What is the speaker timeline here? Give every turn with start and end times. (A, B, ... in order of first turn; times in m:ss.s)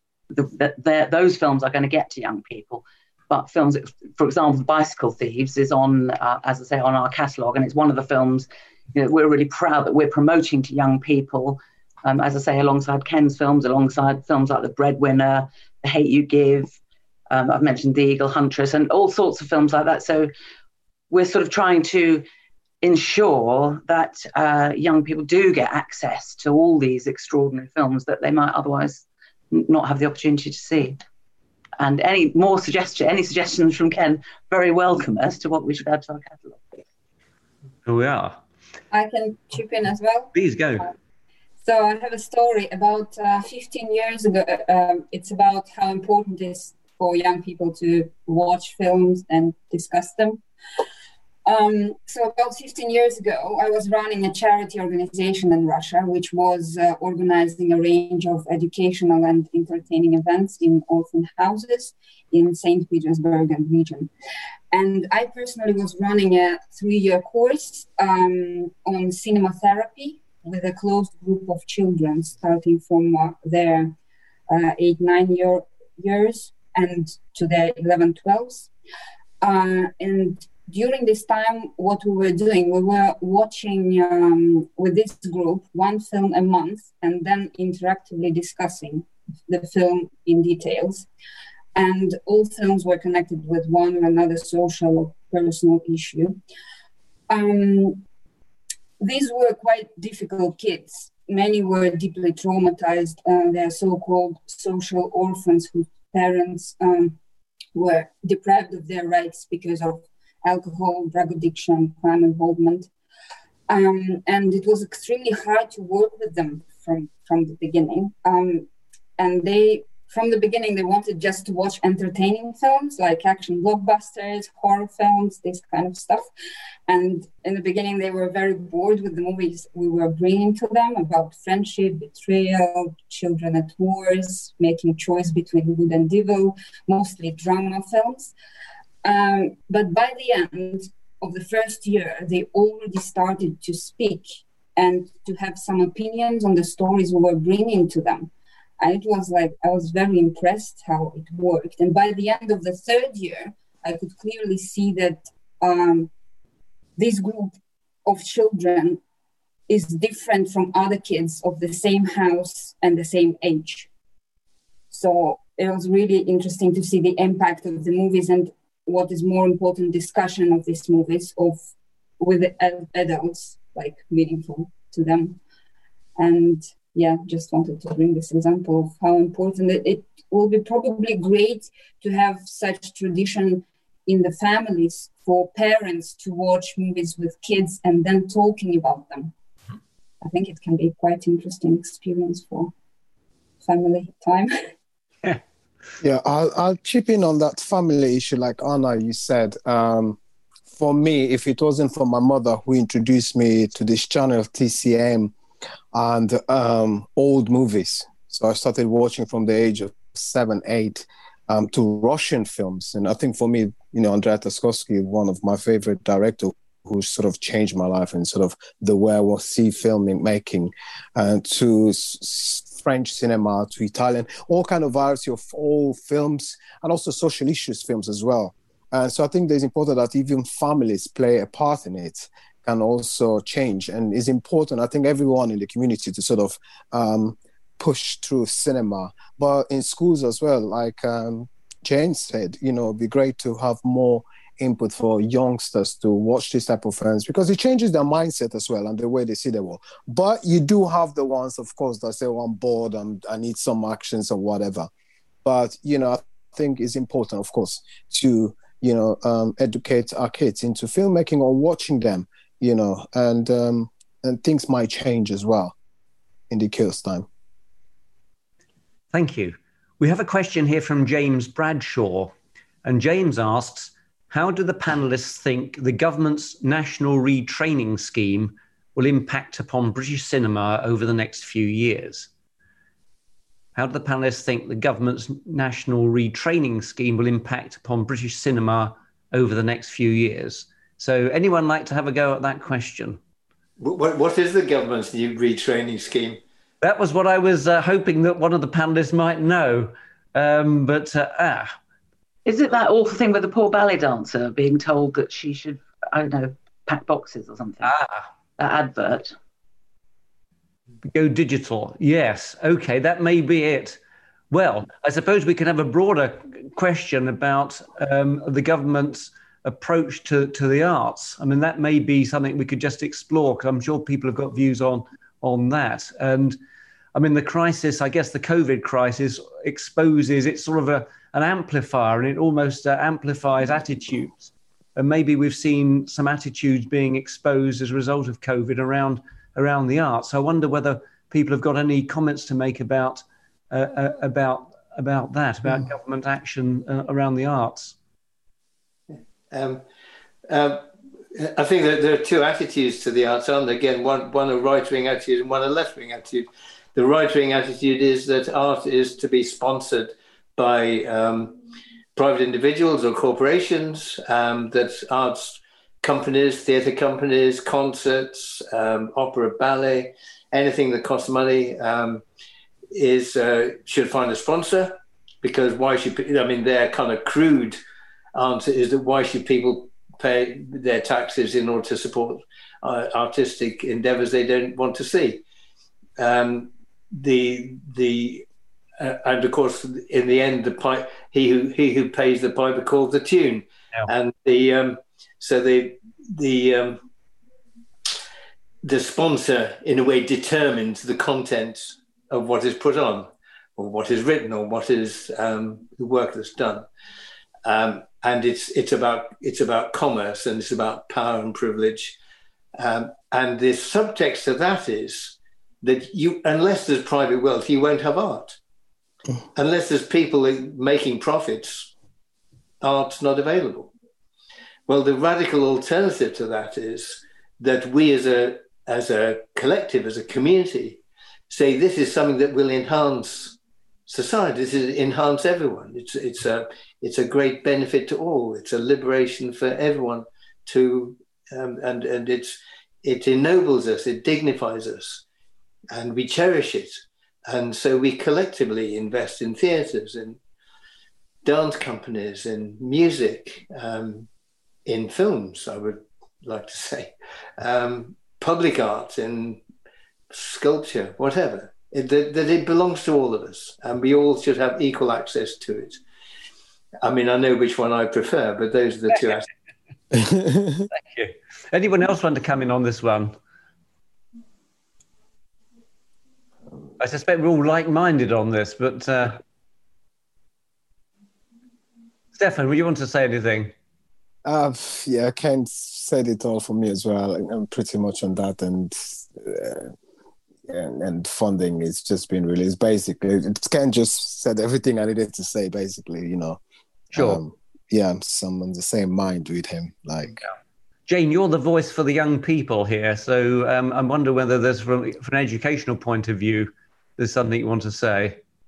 0:00.3-0:16.7 A
0:17.3-0:20.3 A
0:21.1-0:22.2 A
0:22.8-0:31.0 A
0:31.8-0:36.8 A
0:37.8-0:38.4 B
0:38.9-0:40.3 C
0:40.3-0:40.9 B
0:41.6-0:50.4 C
0:51.5-1:04.1 C
1:04.7-1:13.9 C
1:14.5-1:18.7 C
1:19.4-1:31.1 C
1:31.8-1:36.4 C
1:37.3-1:38.0 C
1:39.0-1:47.2 C
1:47.8-1:52.9 C
1:53.7-1:58.7 C
1:59.2-2:06.3 C
2:06.9-2:18.3 C
2:19.0-2:36.1 C
2:37.0-2:39.0 C
2:39.7-2:43.9 C
2:44.9-2:51.6 C
2:52.2-2:55.4 C
2:56.2-3:09.3 C
3:10.2-3:12.7 C
3:13.6-3:14.5 C
3:16.0-3:20.2 D
3:20.7-3:25.3 D
3:25.9-4:14.9 D
4:15.4-4:25.8 D
4:26.5-4:27.3 D
4:29.1-4:42.3 B
4:43.8-4:53.2 B
4:53.8-4:56.4 E
4:56.8-5:01.8 B
5:02.5-5:07.9 A
5:07.9-5:08.2 B
5:08.6-5:09.3 A
5:11.0-5:14.0 B
5:14.5-5:26.6 B
5:27.2-5:48.0 B
5:49.5-5:49.8 E
5:50.5-6:01.6 E
6:02.2-6:12.2 E
6:12.9-6:17.8 E
6:18.4-6:25.4 E
6:26.2-6:28.5 E
6:29.0-6:37.0 E
6:38.8-6:46.9 E
6:47.6-6:52.2 E
6:52.8-6:58.6 E
6:59.6-7:01.9 E
7:02.8-7:03.9 E
7:04.9-7:25.2 E
7:25.9-7:30.4 E
7:31.4-7:34.3 E
7:34.9-7:39.6 E
7:40.3-7:46.0 E
7:47.0-7:49.5 E
7:50.1-7:50.9 D
7:50.9-7:53.4 B
7:57.0-7:59.4 B
8:02.3-8:03.7 B
8:04.4-8:09.9 D
8:10.7-8:16.6 D
8:17.1-8:20.4 D
8:21.1-8:28.4 B